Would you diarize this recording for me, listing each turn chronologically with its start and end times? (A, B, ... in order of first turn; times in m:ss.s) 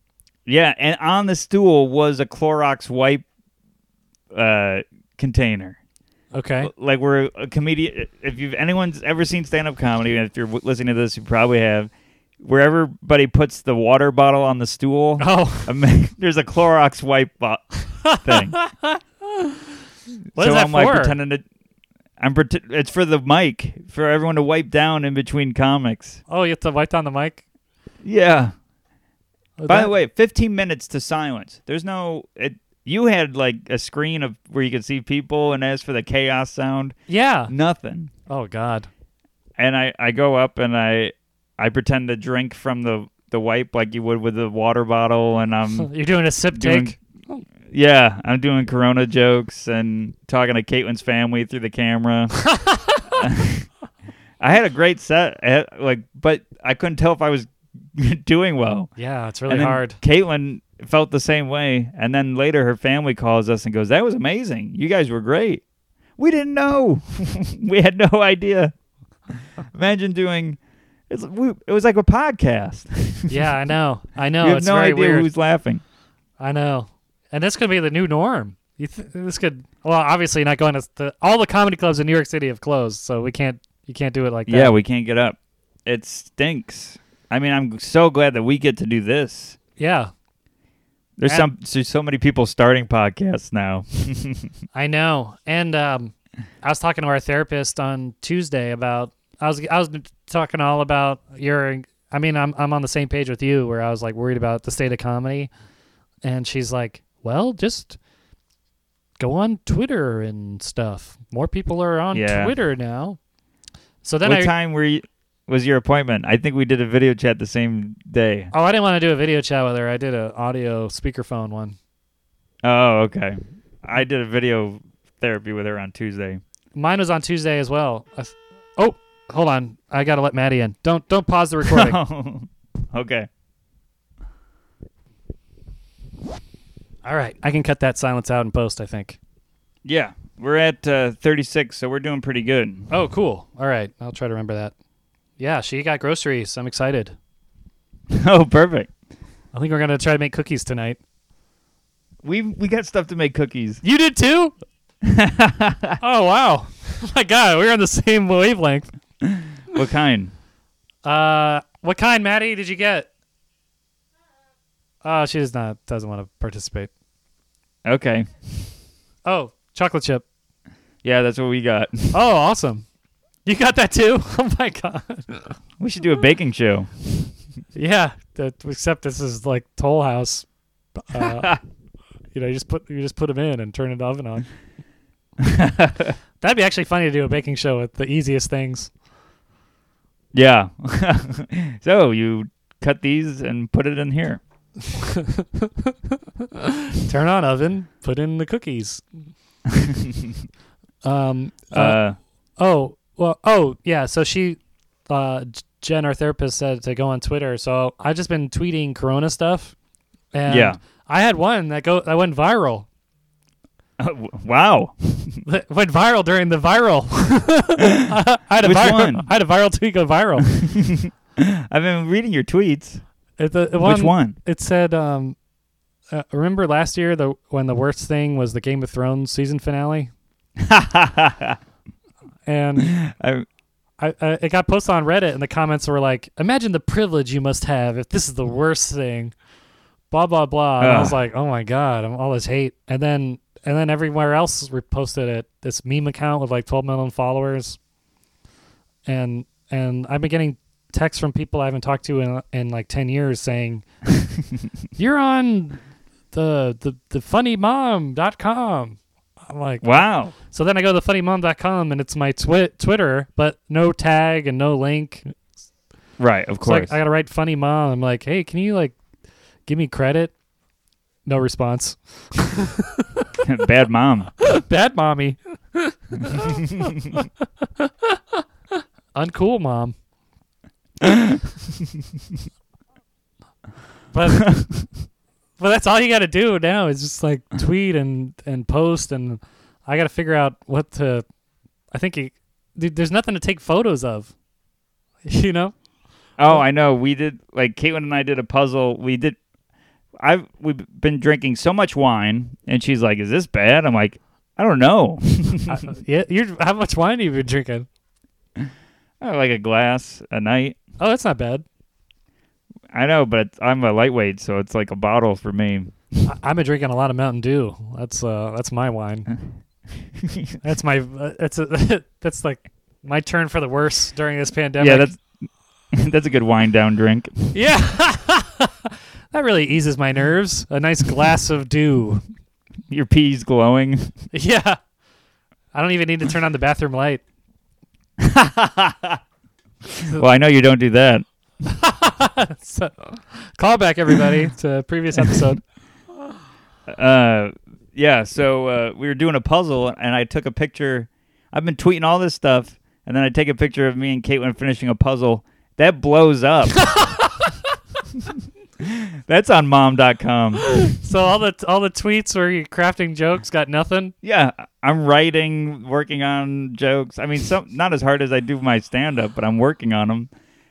0:00.5-0:03.2 A
0:04.3-0:05.8 A
0:06.3-0:06.7 B
0:06.6-0:18.6 A
0:15.2-0:15.7 B
0:18.0-0:19.5 B
0:20.3-0:21.4 A
0:20.4-0:21.1 B
0:22.2-0:26.2 A
0:26.3-0:27.4 B
0:28.0-0:28.5 A
0:29.6-0:29.9 B
0:29.7-0:37.0 A
0:37.1-0:37.5 B
0:37.5-0:38.1 A
0:38.3-0:38.9 B
0:39.6-0:45.9 A
0:45.8-0:47.4 B
0:46.5-0:46.9 A
0:47.7-0:52.5 A
0:52.5-0:53.0 B
0:53.2-0:53.6 A
0:54.4-0:58.9 A
0:59.0-1:00.0 B
0:59.5-1:05.6 A
1:06.2-1:08.7 A
1:09.7-1:10.6 A
1:11.1-1:13.4 A
1:13.3-1:15.3 B
1:14.4-1:15.8 A
1:16.4-1:24.7 B
1:24.5-1:29.6 A
1:29.8-1:30.1 B
1:31.2-1:34.5 A
1:34.7-1:45.5 B
1:46.2-1:48.0 B
1:49.2-1:53.2 B
1:52.1-1:52.5 A
1:54.0-1:54.5 B
1:54.2-1:58.5 A
1:58.5-2:01.8 B
2:02.6-2:06.4 A
2:06.7-2:12.0 B
2:11.6-2:13.3 A
2:17.0-2:19.2 B
2:19.8-2:22.9 A
2:22.9-2:24.7 B
2:25.4-2:27.1 B
2:28.1-2:28.9 A
2:29.5-2:31.0 B
2:32.2-2:33.8 A
2:33.8-2:34.5 B
2:35.0-2:36.0 A
2:36.0-2:38.9 B
2:39.2-2:40.3 A
2:41.0-2:43.1 B
2:45.0-2:46.9 B
2:47.8-2:48.3 A
2:49.2-2:50.2 B
2:51.0-2:52.2 A
2:52.1-2:52.8 B
2:53.4-2:55.5 B
2:55.8-2:56.9 A
2:57.7-3:00.4 B
3:01.0-3:01.6 B
3:01.2-3:01.6 A
3:02.3-3:04.4 B
3:05.4-3:06.2 A
3:06.4-3:08.9 B
3:10.3-3:14.4 A
3:14.9-3:15.9 B
3:16.5-3:19.0 B
3:19.7-3:20.3 A
3:21.0-3:22.0 B
3:21.7-3:22.2 A
3:22.6-3:29.7 B
3:30.3-3:32.8 B
3:30.5-3:30.8 A
3:34.0-3:35.4 A
3:35.4-3:40.5 B
3:38.6-3:39.3 A
3:40.5-3:43.0 A
3:43.4-3:45.4 B
3:43.8-3:44.4 A
3:46.1-3:50.1 B
3:50.6-3:51.6 A
3:52.4-3:53.0 B
3:52.8-3:53.4 A
3:54.0-3:59.3 B
4:00.1-4:07.8 B
4:00.8-4:01.2 A
4:09.0-4:13.8 B
4:15.0-4:25.4 B
4:19.8-4:20.3 A
4:26.2-4:26.9 A
4:26.6-4:28.9 B
4:29.6-4:30.3 B
4:31.2-4:33.0 B
4:33.4-4:34.3 A
4:34.4-4:38.4 B
4:39.1-4:39.9 B
4:41.0-4:41.4 A
4:44.1-4:44.5 B
4:45.6-4:51.2 B
4:51.9-4:54.3 B
4:55.2-4:55.7 B
4:56.4-4:59.4 A
5:00.2-5:05.8 A
5:05.7-5:07.9 B
5:09.2-5:10.8 A
5:11.0-5:11.6 B
5:12.9-5:15.9 A
5:16.2-5:19.3 B
5:20.2-5:20.5 A
5:20.6-5:25.1 B
5:24.8-5:27.5 A
5:27.5-5:32.2 B
5:32.9-5:34.1 A
5:34.3-5:34.8 B
5:35.7-5:37.2 B
5:38.2-5:39.2 A
5:40.0-5:41.2 A
5:41.6-5:45.6 B
5:46.9-5:56.9 A
5:56.9-5:57.2 B
5:58.8-6:00.7 A
6:00.6-6:04.1 B
6:04.2-6:10.3 A